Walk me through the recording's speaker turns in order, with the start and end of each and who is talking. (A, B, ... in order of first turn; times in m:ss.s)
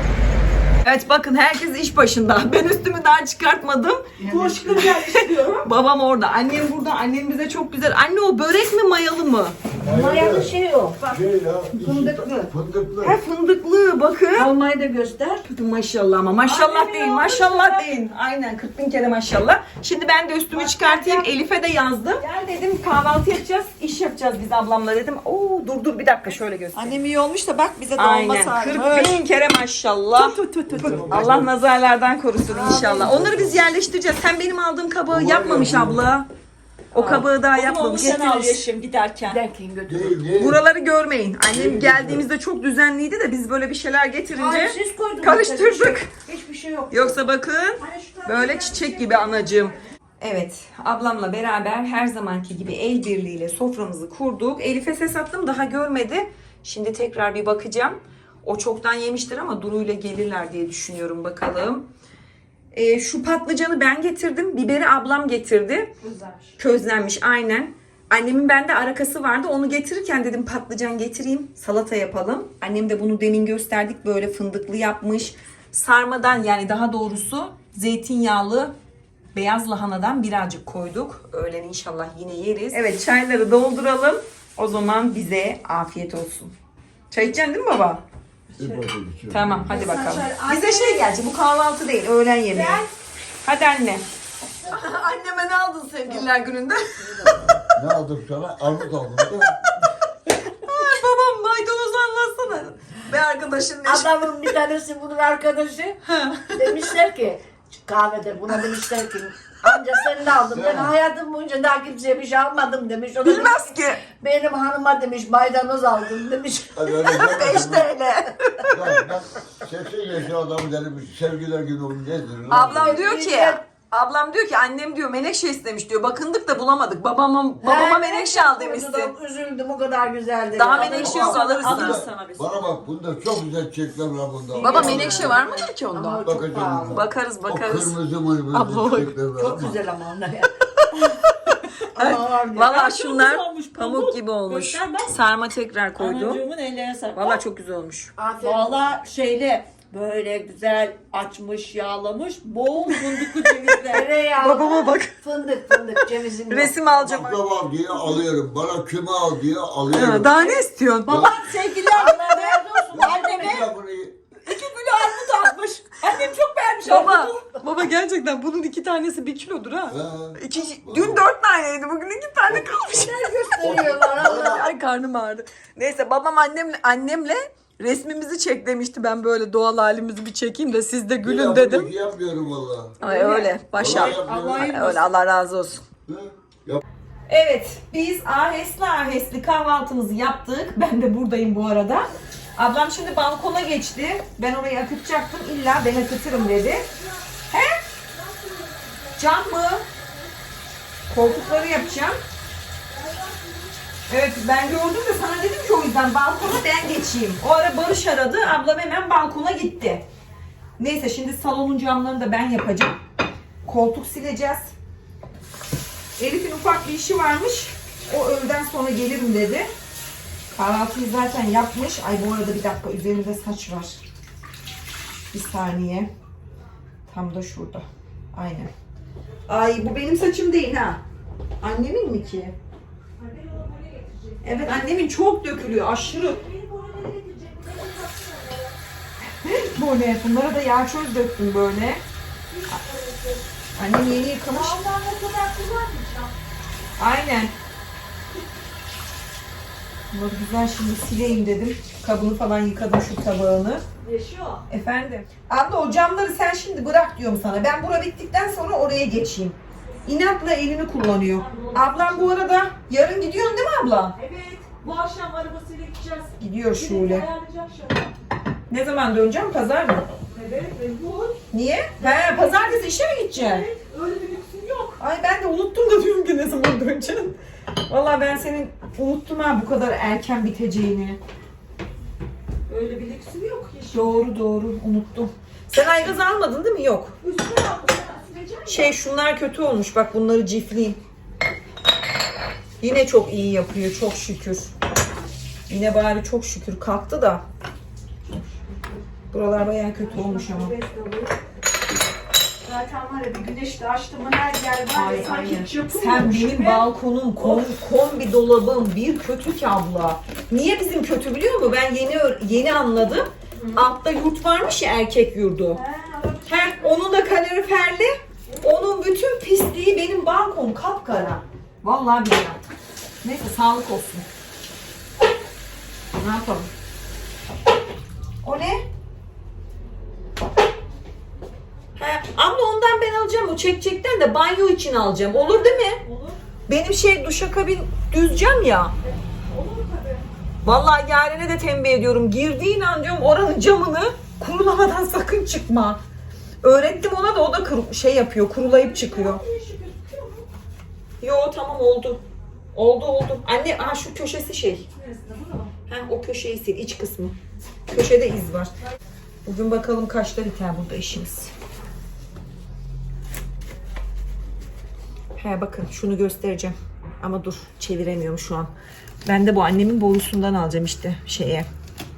0:00.8-0:04.0 A
0:04.2-0:04.9 B
0:04.2-0:05.7 C
0:05.6-0:09.6 A
0:09.8-0:13.2 D
0:09.8-0:11.1 B
0:11.7-0:12.5 B
0:13.0-0:14.5 A
0:14.3-0:15.4 B
0:15.4-0:27.0 A
0:16.4-0:17.9 C
0:20.5-0:21.3 C
0:26.7-0:29.2 C
0:28.0-0:36.3 A
0:30.2-0:31.1 C
0:30.7-0:31.5 D
0:32.5-0:33.2 B
0:32.9-0:33.7 D
0:35.1-0:36.0 D
0:36.9-0:38.3 A
0:36.9-0:39.4 C
0:37.9-0:38.6 B
0:39.3-0:40.2 B
0:39.9-0:40.6 D
0:40.4-0:46.1 A
0:41.5-0:42.2 D
0:44.3-0:47.2 B
0:46.9-1:01.9 A
0:47.8-0:49.8 C
1:02.7-1:05.9 A
1:06.0-1:06.6 C
1:06.6-1:18.7 A
1:19.3-1:26.5 A
1:27.1-1:28.0 A
1:28.6-1:29.7 D
1:29.3-1:32.9 A
1:29.7-1:31.0 B
1:29.8-1:30.7 C
1:32.5-1:32.9 B
1:33.4-1:34.0 A
1:34.7-1:37.6 A
1:34.7-1:34.9 B
1:37.7-1:39.6 D
1:40.6-1:44.5 A
1:43.8-1:46.0 B
1:46.1-1:46.6 A
1:46.5-1:57.5 B
1:50.5-1:50.9 D
1:53.2-1:54.0 A
1:56.7-1:57.9 D
1:57.0-1:58.8 A
1:58.7-2:03.0 D
2:02.5-2:09.1 A
2:02.5-2:03.6 B
2:07.6-2:11.5 B
2:10.5-2:12.1 A
2:10.6-2:12.7 C
2:11.0-2:15.4 D
2:14.5-2:17.0 B
2:14.6-2:16.2 A
2:16.2-2:19.8 D
2:16.9-2:18.0 A
2:18.5-2:18.8 A
2:19.4-2:20.5 B
2:22.0-2:22.7 B
2:22.0-2:26.4 A
2:22.6-2:25.2 C
2:26.0-2:27.4 C
2:27.1-2:28.1 A
2:28.2-2:28.8 B
2:28.4-2:34.2 C
2:33.9-2:36.9 B
2:34.4-2:35.2 A
2:36.5-2:37.4 A
2:36.9-2:40.5 D
2:39.9-2:41.2 A
2:40.5-2:43.7 C
2:41.0-2:41.5 D
2:41.1-2:43.7 B
2:42.9-2:44.2 D
2:44.4-2:47.5 C
2:46.8-3:01.9 A
2:49.9-2:51.2 D
2:52.5-2:52.9 D
2:52.9-2:54.7 B
2:53.6-2:54.7 D
3:01.2-3:03.0 D
3:03.0-3:05.0 C
3:03.0-3:05.8 A
3:03.8-3:04.8 D
3:06.1-3:06.8 D
3:07.3-3:16.9 A
3:16.4-3:17.0 C
3:17.5-3:17.8 A
3:18.1-3:20.0 C
3:19.2-3:19.8 A
3:21.1-3:22.2 A
3:21.2-3:22.1 C
3:22.9-3:23.8 C
3:24.1-3:30.0 A
3:30.8-3:33.0 A
3:33.6-3:34.8 A
3:36.2-3:39.7 A
3:40.5-3:44.0 A
3:45.3-3:46.1 A
3:47.1-3:48.7 A
3:49.5-3:51.0 A
3:51.6-3:52.6 A
3:53.2-3:54.9 C
3:54.4-3:56.4 A
3:56.0-3:58.7 C
3:59.4-4:02.0 A
4:02.5-4:03.4 C
4:03.8-4:04.8 A
4:04.5-4:06.3 C
4:07.0-4:07.5 A
4:10.1-4:13.8 A
4:14.0-4:14.6 C
4:14.7-4:24.2 A
4:21.3-4:22.4 C
4:24.2-4:28.1 C
4:26.4-4:27.3 A
4:28.7-4:30.1 A
4:30.3-4:31.4 C
4:31.5-4:33.7 A
4:32.0-4:35.0 C
4:35.0-4:37.4 A
4:37.9-4:41.2 A
4:42.7-4:44.2 C
4:43.9-4:47.2 A
4:47.2-4:48.9 C
4:48.7-4:51.0 A
4:52.8-4:54.7 A
4:55.7-4:57.4 A
4:58.3-4:58.9 C
4:59.3-5:00.7 A
5:00.0-5:01.3 C
5:02.6-5:06.9 C
5:04.9-5:05.7 B
5:05.9-5:15.8 A
5:07.4-5:07.7 C
5:15.7-5:16.9 C
5:16.5-5:22.6 A
5:23.2-5:24.2 A
5:26.2-5:26.7 A
5:28.4-5:28.8 A
5:32.0-5:36.0 A
5:35.3-5:36.4 C
5:36.7-5:38.9 A
5:39.4-5:40.3 C
5:40.6-5:46.0 A
5:46.6-5:49.4 A
5:48.6-5:50.5 C
5:51.2-5:52.2 A
5:52.7-5:54.9 A
5:55.0-5:55.7 C
5:55.9-5:57.4 A
5:57.9-5:58.7 A
5:59.5-6:01.5 A
6:05.4-6:08.7 A
6:09.2-6:11.7 A